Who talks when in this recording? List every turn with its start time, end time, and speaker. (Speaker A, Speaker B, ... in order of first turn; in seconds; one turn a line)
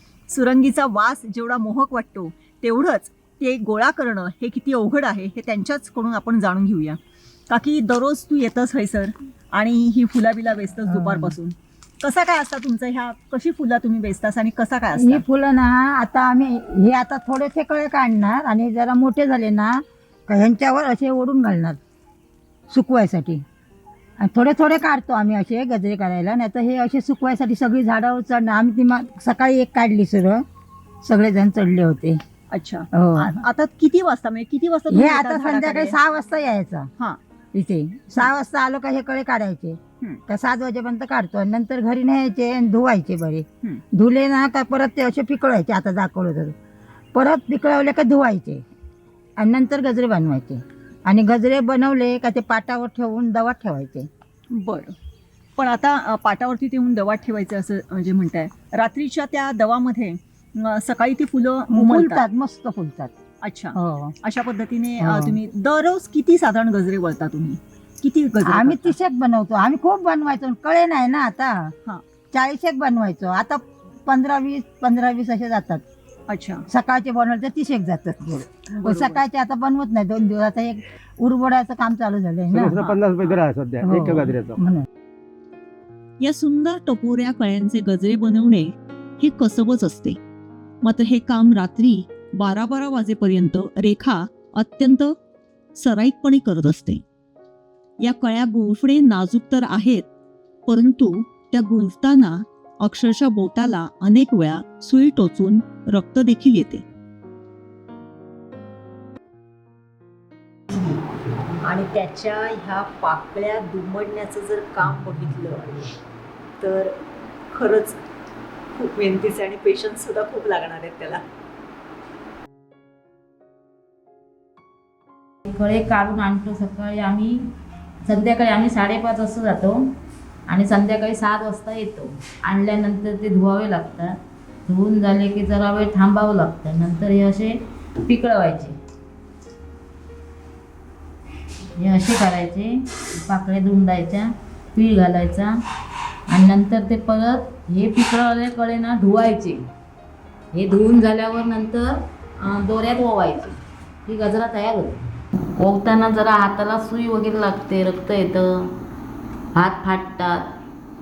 Speaker A: 0.3-7.0
Speaker A: 7.5-15.2
Speaker B: 10.9-11.3
Speaker B: 14.9-21.8
Speaker B: 22.7-23.4
Speaker B: 24.2-30.4
Speaker B: 31.0-32.2
Speaker A: 32.5-36.0
Speaker B: 32.9-33.5
Speaker B: 34.9-36.9
Speaker B: 37.5-46.5
Speaker B: 47.1-48.6
Speaker B: 49.4-54.1
Speaker A: 54.5-55.0
Speaker A: 55.6-62.2
Speaker B: 61.7-63.1
Speaker A: 63.4-69.0
Speaker B: 63.7-64.2
Speaker B: 65.0-65.4
Speaker B: 68.4-71.7
Speaker B: 72.3-75.8
Speaker A: 76.3-76.7
Speaker B: 76.7-82.8
Speaker A: 78.7-79.2
Speaker C: 82.5-84.6
Speaker A: 82.8-83.4
Speaker B: 83.8-84.9
Speaker D: 86.2-90.2
Speaker D: 90.8-95.2
Speaker D: 95.8-97.0
Speaker D: 98.0-100.1
Speaker D: 100.7-106.8
Speaker A: 110.7-111.0
Speaker A: 111.6-115.9
Speaker A: 116.6-117.0
Speaker A: 117.5-118.0
Speaker A: 118.7-121.2
Speaker E: 125.5-127.5
Speaker E: 128.1-129.9
Speaker E: 130.5-138.8
Speaker E: 141.8-145.5
Speaker E: 146.3-149.7
Speaker E: 150.5-155.0
Speaker E: 155.6-158.7
Speaker E: 159.6-160.5